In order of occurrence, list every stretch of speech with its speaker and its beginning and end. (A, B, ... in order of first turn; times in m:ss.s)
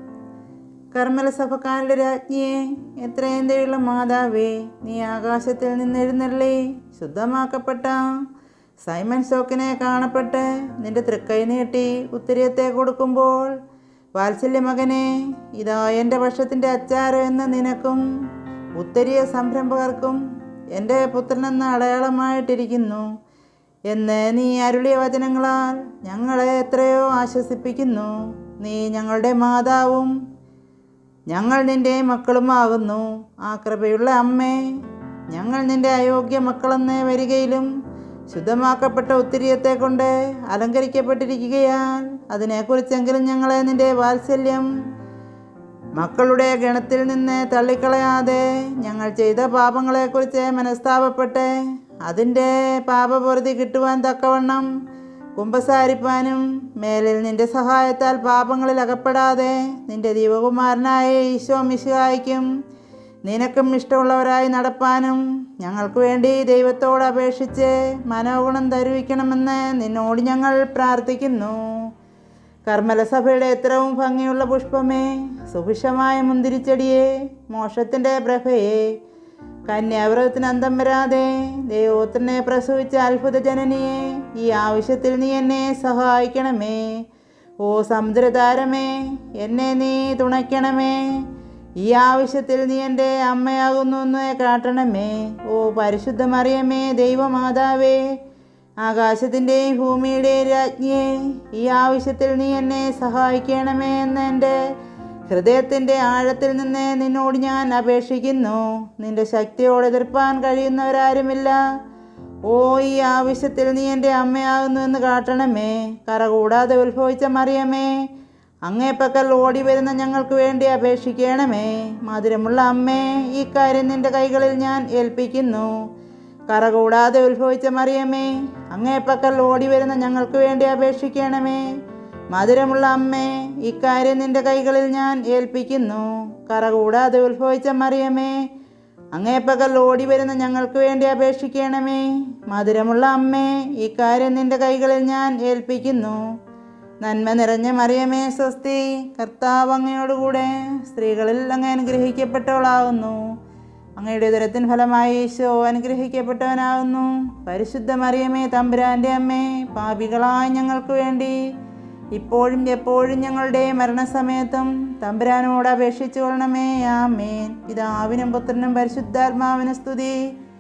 0:00.9-0:08.1 A
0:08.8-0:13.6 A
0:14.2-0:18.1 A
0:18.8-0:20.2 A
0:20.7-0:23.1 A
0:23.9-0:30.2 A
0:31.3-0:34.8 A
0:35.3-0:37.7 A
0:38.3-0:44.7 A
0:46.0-0:54.7 A
0:55.4-1:02.5 A
1:03.2-1:11.9 A
1:12.7-1:19.0 A
1:19.7-1:27.0 A
1:27.6-1:31.3 A
1:31.8-1:38.0 A
1:38.8-1:44.6 A
1:45.3-1:51.6 A
1:52.4-1:58.0 A
1:58.7-2:05.8 A
2:06.5-2:11.7 A
2:12.3-2:18.5 A
2:19.1-2:26.2 A
2:27.0-2:33.3 A
2:34.0-2:41.4 A
2:42.1-2:50.2 A